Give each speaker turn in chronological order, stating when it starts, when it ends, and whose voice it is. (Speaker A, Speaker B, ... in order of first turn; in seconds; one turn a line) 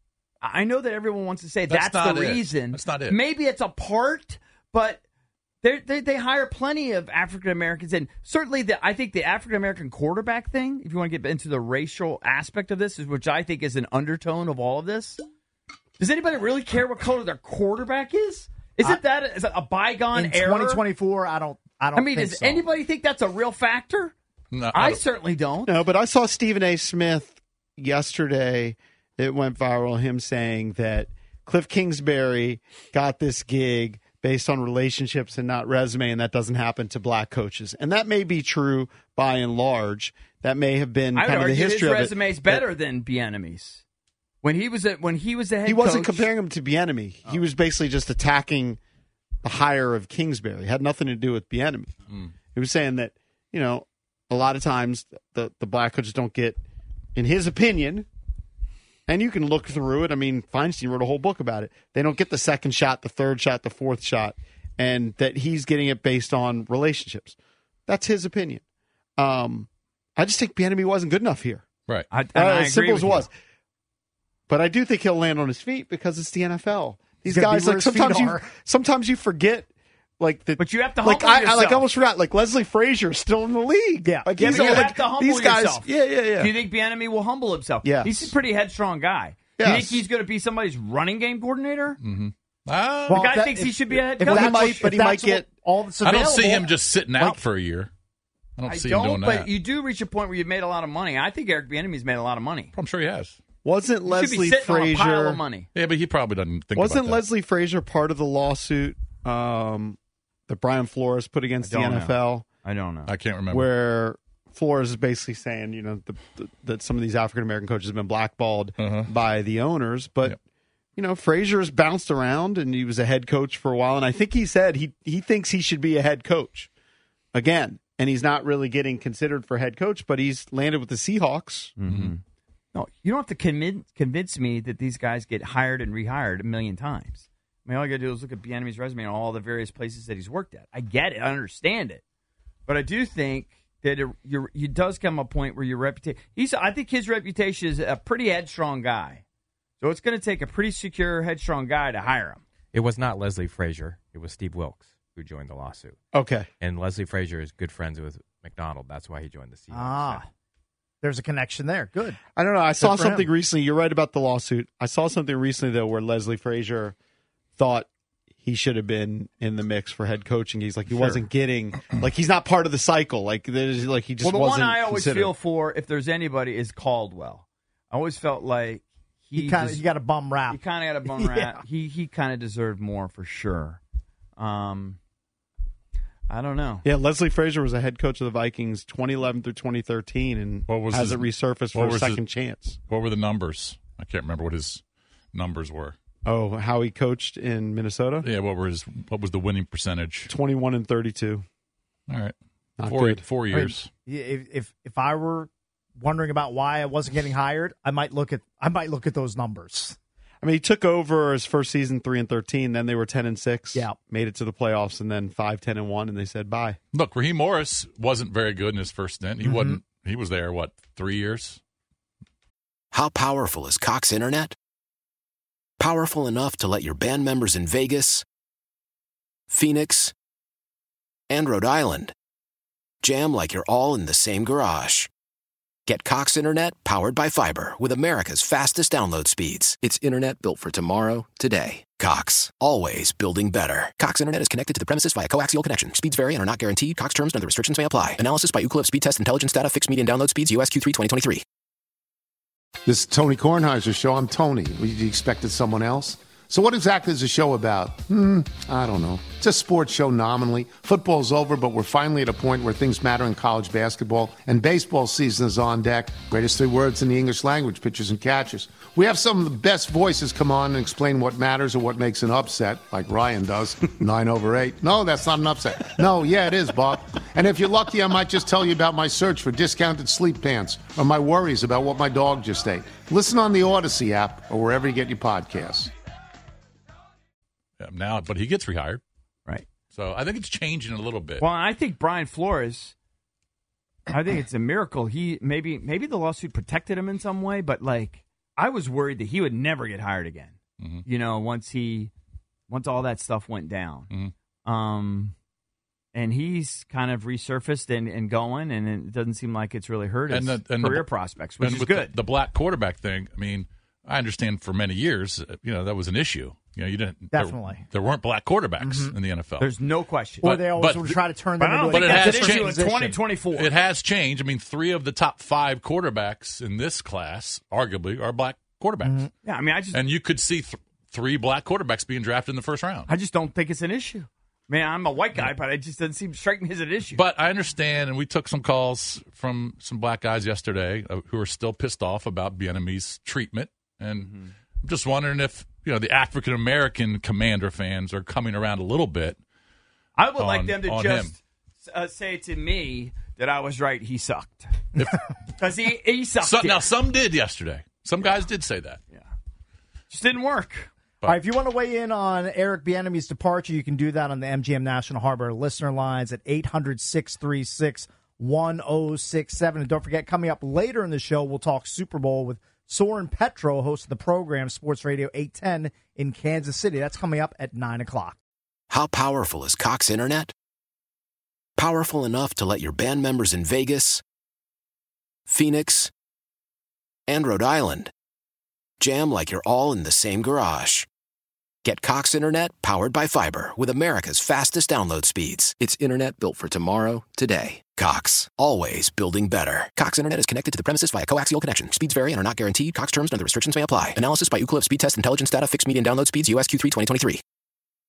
Speaker A: 0.4-5.0
Speaker B: 1.7-3.2
Speaker A: 5.6-15.2
Speaker A: 16.0-20.8
Speaker C: 20.1-22.7
Speaker A: 21.9-24.1
Speaker B: 24.5-25.0
Speaker A: 24.7-25.8
Speaker D: 25.7-42.7
Speaker A: 41.1-43.8
Speaker A: 44.4-46.3
Speaker D: 45.6-48.8
Speaker D: 49.4-51.9
Speaker D: 52.5-56.6
Speaker D: 57.1-58.1
Speaker D: 59.1-67.3
Speaker D: 67.9-68.6
Speaker D: 69.2-71.6
Speaker A: 72.1-73.3
Speaker D: 72.3-73.3
Speaker D: 74.5-86.5
Speaker C: 77.2-78.5
Speaker A: 80.6-81.8
Speaker C: 84.0-85.1
Speaker A: 84.4-92.0
Speaker D: 87.8-88.3
Speaker D: 89.6-90.0
Speaker B: 92.0-93.3
Speaker C: 93.1-97.4
Speaker A: 93.1-94.9
Speaker D: 94.2-95.5
Speaker B: 96.0-97.9
Speaker B: 98.6-99.5
Speaker A: 98.7-102.7
Speaker B: 102.7-103.4
Speaker D: 103.6-105.4
Speaker A: 104.1-105.7
Speaker B: 105.7-107.2
Speaker D: 106.8-110.0
Speaker D: 110.5-112.5
Speaker A: 111.6-113.1
Speaker B: 113.1-113.7
Speaker D: 113.5-120.4
Speaker B: 118.8-119.1
Speaker D: 121.0-126.7
Speaker D: 127.3-131.7
Speaker A: 131.8-132.2
Speaker B: 131.9-132.1
Speaker A: 132.7-142.0
Speaker A: 142.7-149.2
Speaker A: 149.8-152.4
Speaker E: 152.7-156.0
Speaker D: 156.1-156.5
Speaker E: 156.6-160.2
Speaker C: 159.7-160.3
Speaker C: 161.0-163.3
Speaker D: 162.3-166.9
Speaker D: 167.6-167.9
Speaker D: 168.4-175.3
Speaker A: 170.9-171.3
Speaker A: 174.2-179.8
Speaker C: 179.3-181.6
Speaker A: 180.5-183.8
Speaker A: 184.4-185.0
Speaker A: 186.3-186.9
Speaker D: 186.8-192.8
Speaker B: 190.7-192.2
Speaker B: 192.9-194.8
Speaker B: 195.3-196.0
Speaker D: 196.2-198.3
Speaker B: 198.2-200.3
Speaker D: 200.3-201.4
Speaker B: 202.1-203.9
Speaker D: 202.8-203.3
Speaker C: 203.4-210.0
Speaker D: 210.4-216.8
Speaker C: 213.7-214.0
Speaker B: 216.9-221.6
Speaker C: 219.4-219.8
Speaker F: 222.9-224.6
Speaker F: 225.8-228.2
Speaker F: 229.5-230.1
Speaker F: 231.3-232.1
Speaker F: 233.0-235.1
Speaker F: 235.9-251.4
Speaker G: 252.9-285.9
Speaker B: 287.8-289.0
Speaker B: 289.9-291.5
Speaker A: 291.4-292.9
Speaker A: 294.1-300.5
Speaker B: 300.8-301.1
Speaker A: 301.1-302.1
Speaker A: 302.7-304.1
Speaker A: 304.7-305.3
Speaker A: 306.1-312.1
Speaker B: 310.3-319.7
Speaker C: 317.3-317.8
Speaker C: 318.8-319.2
Speaker A: 319.6-320.5
Speaker B: 320.4-321.2
Speaker C: 320.4-323.2
Speaker A: 321.6-323.7
Speaker B: 321.9-322.8
Speaker B: 323.5-329.3
Speaker C: 329.0-329.3
Speaker A: 329.4-330.0
Speaker B: 329.9-333.1
Speaker A: 333.1-337.2
Speaker B: 337.1-349.4
Speaker A: 344.2-344.5
Speaker A: 350.2-354.9
Speaker B: 350.4-351.4
Speaker A: 355.6-356.9
Speaker B: 356.4-359.0
Speaker A: 360.1-360.9
Speaker C: 361.2-378.4
Speaker F: 378.9-380.5
Speaker F: 381.8-384.2
Speaker F: 385.5-386.1
Speaker F: 387.3-388.1
Speaker F: 389.0-391.1
Speaker F: 391.9-407.4